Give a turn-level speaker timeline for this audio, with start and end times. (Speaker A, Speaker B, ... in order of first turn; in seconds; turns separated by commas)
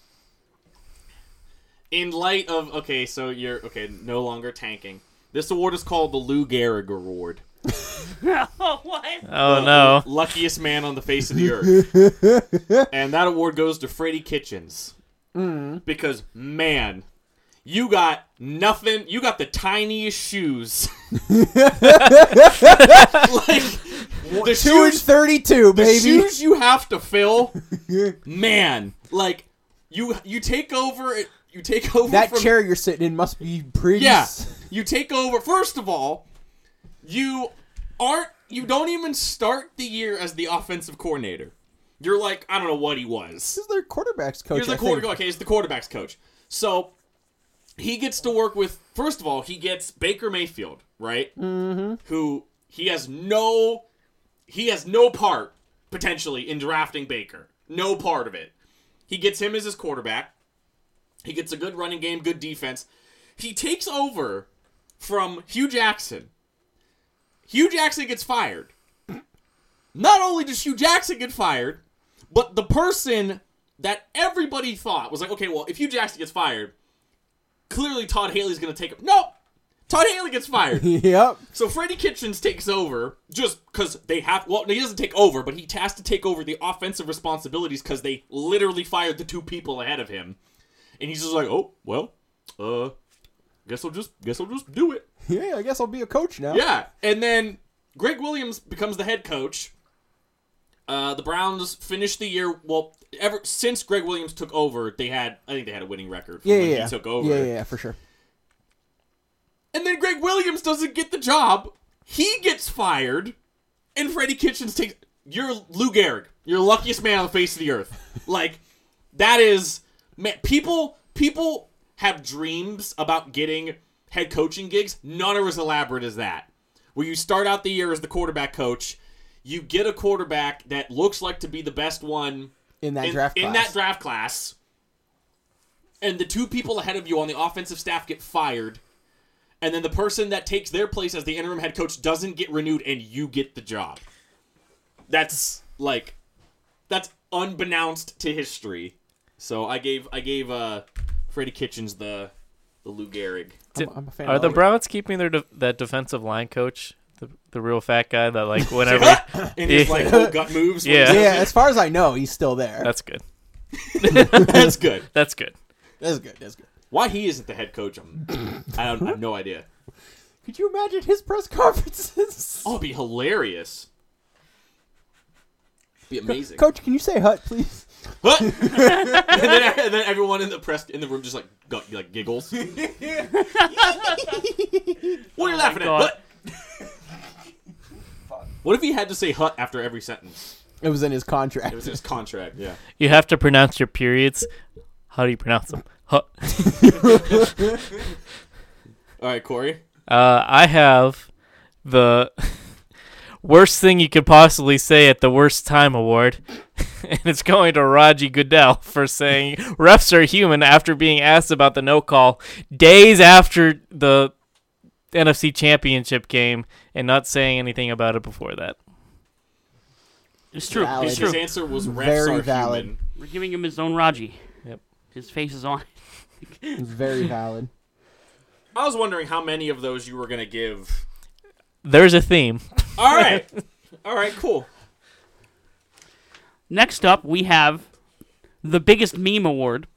Speaker A: 1.9-7.4, Speaker B: 8.2-9.3, Speaker C: 9.3-10.1, Speaker A: 9.4-11.9, Speaker D: 11.7-12.8, Speaker A: 12.9-14.9, Speaker D: 15.3-15.8, Speaker A: 15.8-17.0, Speaker A: 17.6-21.0, Speaker D: 21.3-23.3, Speaker A: 22.4-25.1, Speaker D: 24.2-26.4, Speaker A: 25.7-27.6, Speaker D: 27.6-28.2, Speaker A: 28.2-32.6, Speaker D: 32.1-34.7, Speaker A: 34.0-36.2, Speaker A: 37.0-43.6, Speaker D: 43.5-45.1, Speaker A: 44.5-46.9, Speaker A: 47.8-51.3, Speaker D: 51.4-52.0, Speaker A: 52.0-53.8, Speaker A: 54.5-58.5, Speaker A: 59.1-60.3, Speaker A: 61.2-62.9, Speaker A: 63.4-64.5, Speaker A: 65.0-66.3, Speaker A: 67.5-68.7, Speaker A: 70.0-76.7, Speaker A: 77.7-79.3, Speaker A: 79.9-81.0, Speaker D: 80.7-81.4, Speaker A: 81.5-90.4, Speaker A: 91.0-93.0, Speaker A: 93.7-95.1, Speaker D: 95.3-96.7, Speaker A: 96.5-99.7, Speaker A: 100.9-107.5, Speaker D: 106.4-108.0, Speaker A: 109.7-113.3, Speaker A: 114.0-118.6, Speaker A: 119.1-134.6, Speaker D: 132.8-133.8, Speaker A: 136.0-138.8, Speaker A: 139.6-144.0, Speaker A: 145.1-146.2, Speaker A: 146.9-152.3, Speaker A: 152.8-153.7, Speaker D: 153.7-154.7, Speaker C: 153.8-161.3, Speaker A: 158.8-161.5, Speaker D: 158.9-162.9, Speaker C: 162.8-163.2, Speaker A: 163.8-165.1, Speaker C: 164.0-165.5, Speaker D: 164.4-164.7, Speaker D: 166.0-166.7, Speaker A: 166.9-169.7, Speaker D: 170.4-172.7, Speaker A: 172.6-173.9, Speaker A: 176.1-176.7, Speaker D: 176.5-179.4, Speaker A: 178.2-182.7, Speaker D: 182.6-185.2, Speaker B: 183.3-184.3, Speaker B: 185.4-186.2, Speaker A: 185.4-186.2, Speaker A: 188.6-190.6, Speaker D: 190.8-192.0, Speaker A: 191.7-192.8, Speaker C: 193.0-194.5, Speaker C: 195.1-197.5, Speaker D: 196.8-197.6, Speaker A: 199.2-199.8, Speaker C: 200.1-201.3, Speaker C: 201.8-202.6, Speaker C: 203.4-214.3, Speaker C: 215.1-218.8, Speaker B: 220.5-221.4, Speaker D: 220.7-222.9, Speaker A: 220.9-223.0, Speaker B: 223.2-224.4, Speaker B: 225.1-226.8, Speaker D: 226.8-227.7, Speaker A: 228.8-231.1, Speaker C: 231.8-233.4, Speaker A: 233.0-233.5, Speaker A: 234.0-234.7, Speaker B: 236.7-237.9, Speaker B: 238.6-239.9